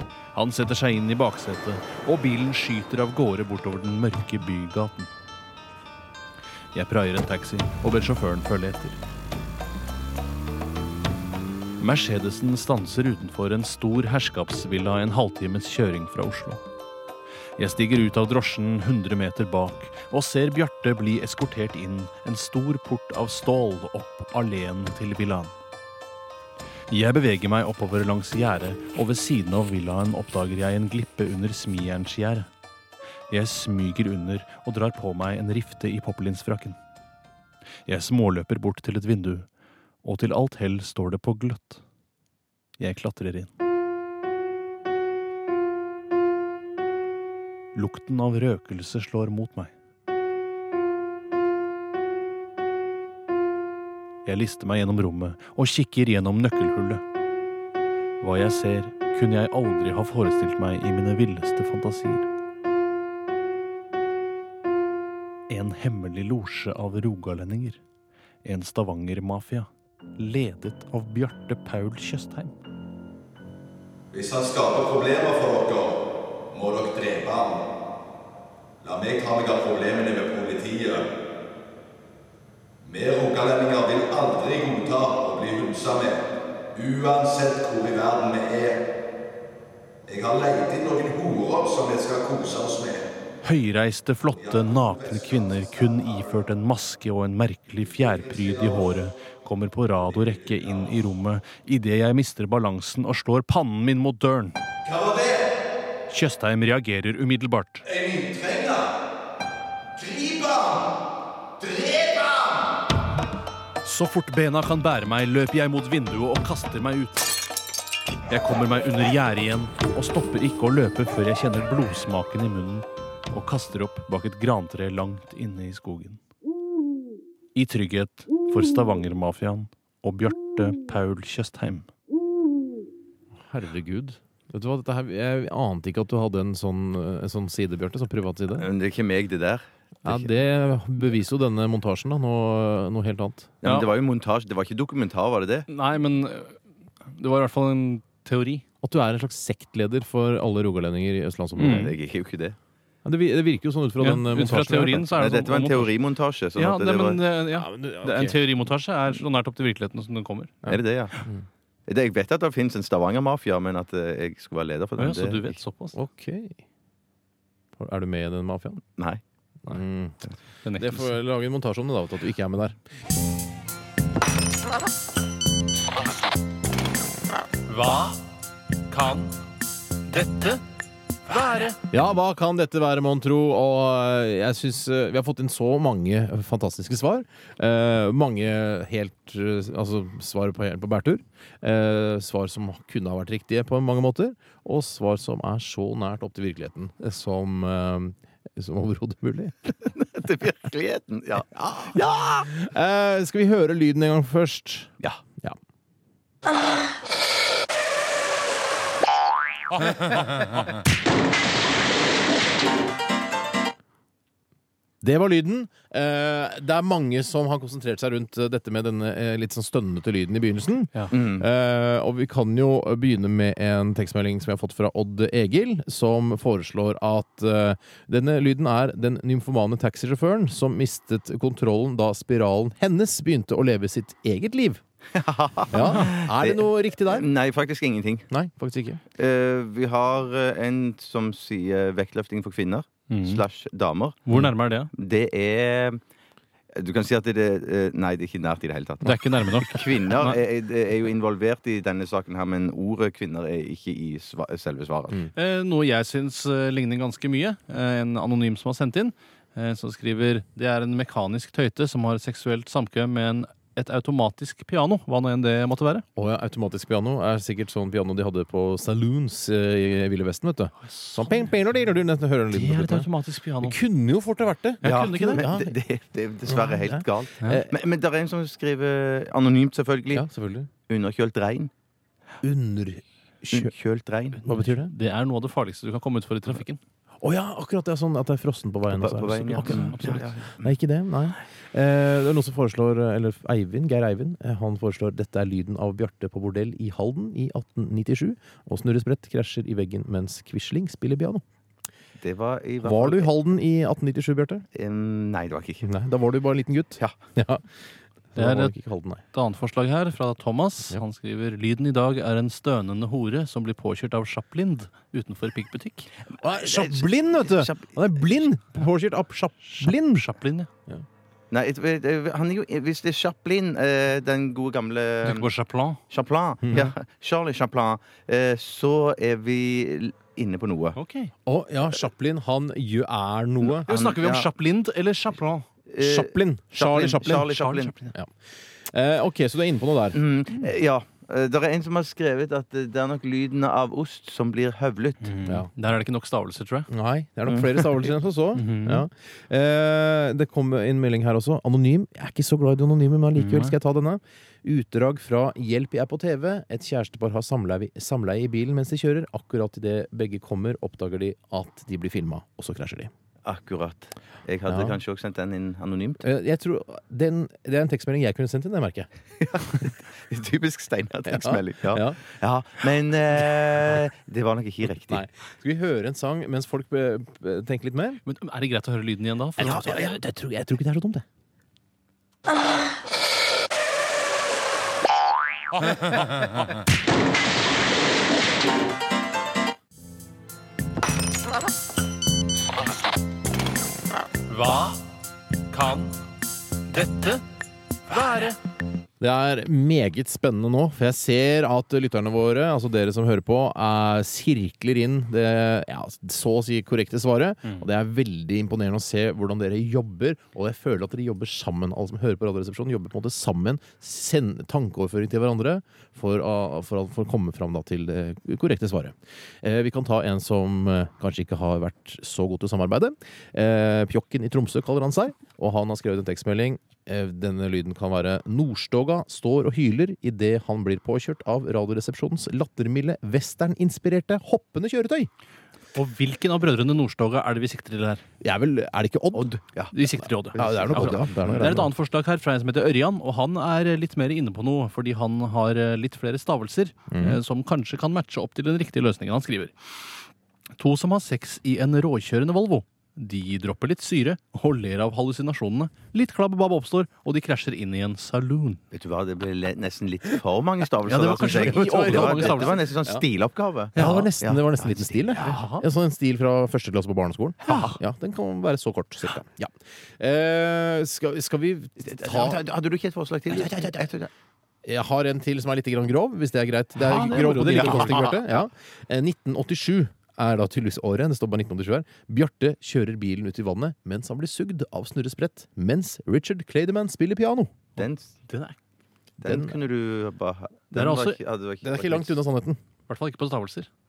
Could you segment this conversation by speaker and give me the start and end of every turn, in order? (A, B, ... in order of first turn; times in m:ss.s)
0:00.3-0:05.1 A
0:06.7-0:09.0 A
0:11.8-0:16.6 A
0:17.6-0:25.5 A
0:26.9-0:32.5 A
0:33.3-0:36.8 A
0:37.9-0:39.5 A
0:40.0-0:41.8 A
0:42.8-0:43.5 A
0:47.8-0:49.7 A
0:54.2-0:57.0 A
0:58.2-1:02.3 A
1:05.5-1:07.8 A
1:08.4-1:12.5 A
1:14.1-1:17.6 B
1:18.8-1:21.1 B
1:22.8-1:26.2 B
1:26.8-1:28.8 B
1:30.1-1:33.1 B
1:33.4-1:44.6 A
1:34.3-1:36.4 B
1:38.0-1:38.9 B
1:40.2-1:40.8 B
1:44.8-1:45.6 B
1:46.1-1:47.8 A
1:47.8-1:48.9 B
1:50.0-1:51.0 B
1:51.6-1:52.8 B
1:53.8-1:57.3 A
1:58.3-2:06.2 A
2:07.6-2:11.9 A
2:13.5-2:18.7 C
2:18.6-2:20.3 D
2:20.0-2:23.6 C
2:23.6-2:25.7 D
2:25.7-2:28.6 A
2:28.8-2:31.9 C
2:31.6-2:31.9 A
2:31.6-2:32.6 D
2:33.0-2:35.1 C
2:34.0-2:35.9 A
2:35.2-2:37.2 D
2:36.6-2:40.6 A
2:37.6-2:38.4 C
2:40.6-2:41.4 C
2:40.7-2:41.2 D
2:41.9-2:45.6 D
2:45.0-2:46.0 A
2:46.0-2:46.6 C
2:47.8-2:48.8 C
2:49.7-2:50.2 C
2:50.6-2:51.1 A
2:50.8-2:52.8 C
2:57.7-2:58.2 A
2:58.9-2:59.4 A
3:00.1-3:00.6 A
3:01.3-3:01.8 A
3:01.9-3:19.8 C
3:19.9-3:22.5 D
3:21.5-3:25.6 C
3:35.0-3:54.8 C
3:41.1-3:41.4 D
3:55.2-3:58.3 D
3:55.7-3:57.3 C
3:58.3-3:59.0 C
3:59.2-4:04.3 D
4:03.1-4:03.4 A
4:04.3-4:04.9 A
4:04.9-4:06.0 D
4:06.7-4:15.2 D
4:09.0-4:10.4 A
4:15.4-4:26.0 A
4:26.2-4:33.1 C
4:30.8-4:31.5 A
4:32.5-4:33.8 A
4:33.6-4:35.7 C
4:34.8-4:35.5 A
4:34.8-4:40.3 D
4:36.5-4:37.7 C
4:40.1-4:40.7 C
4:40.9-4:41.7 D
4:42.4-4:43.7 C
4:43.5-4:44.4 D
4:44.4-4:46.8 A
4:44.4-4:44.9 C
4:47.2-5:01.4 C
4:48.9-4:50.7 D
4:49.6-4:50.2 A
5:02.2-5:03.3 D
5:02.8-5:04.6 C
5:04.8-5:05.9 D
5:05.8-5:07.6 C
5:08.4-5:09.2 C
5:08.4-5:08.8 A
5:09.3-5:16.1 A
5:16.4-5:20.3 C
5:16.5-5:18.4 D
5:19.8-5:20.7 A
5:21.5-5:25.5 D
5:25.2-5:26.0 A
5:26.1-5:31.0 D
5:26.6-5:26.9 C
5:31.0-5:31.3 A
5:31.5-5:33.9 C
5:33.7-5:34.5 D
5:33.9-5:35.7 A
5:35.9-5:38.0 D
5:36.0-5:37.6 C
5:37.5-5:38.1 A
5:38.9-5:40.2 C
5:40.1-5:45.3 D
5:45.2-5:46.9 A
5:46.9-6:03.1 C
5:48.5-5:49.0 A
5:53.4-5:53.8 A
6:03.4-6:06.3 D
6:04.7-6:05.0 C
6:06.2-6:09.1 C
6:09.4-6:15.2 D
6:11.3-6:12.2 C
6:15.1-6:18.2 C
6:18.2-6:20.0 A
6:19.6-6:21.2 C
6:34.5-6:35.0 A
6:35.7-6:36.2 A
6:36.9-6:37.4 A
6:38.1-6:38.6 A
6:39.2-7:15.3 C
7:16.0-7:18.2 A
7:18.4-7:19.5 C
7:19.3-7:19.9 D
7:19.9-7:29.7 A
7:20.5-7:21.8 D
7:20.6-7:21.9 C
7:27.1-7:27.4 C
7:30.8-7:38.8 A
7:38.9-7:45.6 D
7:41.1-7:42.9 A
7:41.5-7:43.2 C
7:44.0-7:52.6 C
7:45.4-7:45.8 A
7:47.7-7:48.0 D
7:52.0-7:54.3 D
7:53.5-7:54.0 C
7:54.8-8:07.7 C
7:57.0-7:58.4 D
7:57.1-7:58.2 A
8:08.0-8:08.3 D
8:08.5-8:08.8 A
8:09.4-8:12.4 D
8:09.4-8:09.8 C
8:10.9-8:11.4 A
8:11.8-8:12.8 C
8:13.1-8:13.9 A